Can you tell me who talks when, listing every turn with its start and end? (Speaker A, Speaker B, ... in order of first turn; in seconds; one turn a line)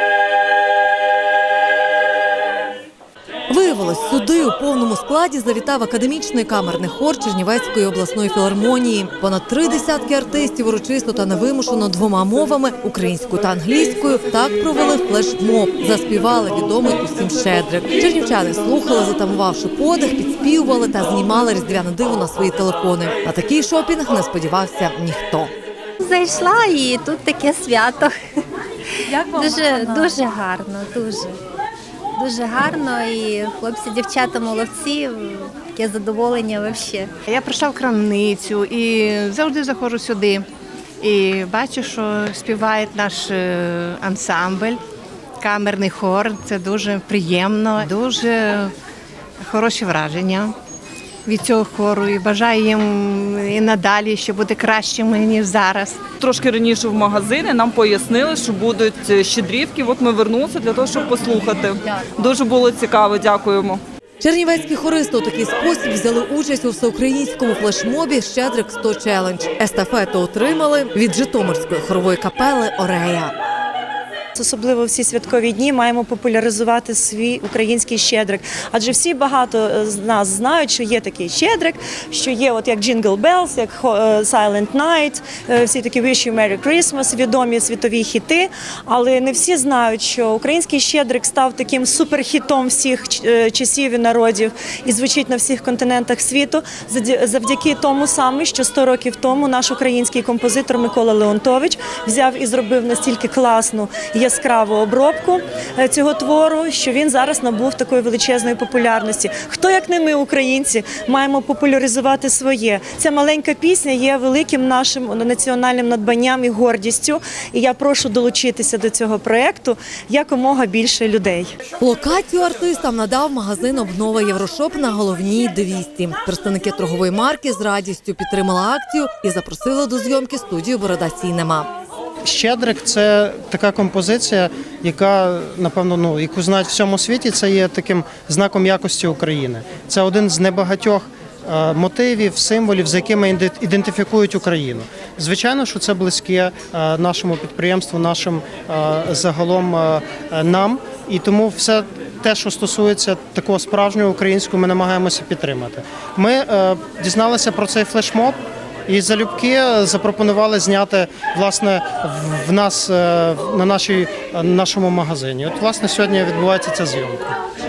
Speaker A: 3.5-25.5
Speaker B: 26.0-28.2
Speaker B: 29.0-31.3
Speaker B: 32.2-37.1
Speaker C: 37.3-40.5
Speaker C: 41.0-44.8
Speaker C: 45.4-48.7
Speaker C: 49.4-50.5
Speaker C: 51.2-56.0
Speaker D: 56.2-63.8
Speaker A: 64.2-73.3
Speaker E: 74.4-121.5
Speaker A: 121.8-131.7
Speaker F: 132.2-167.4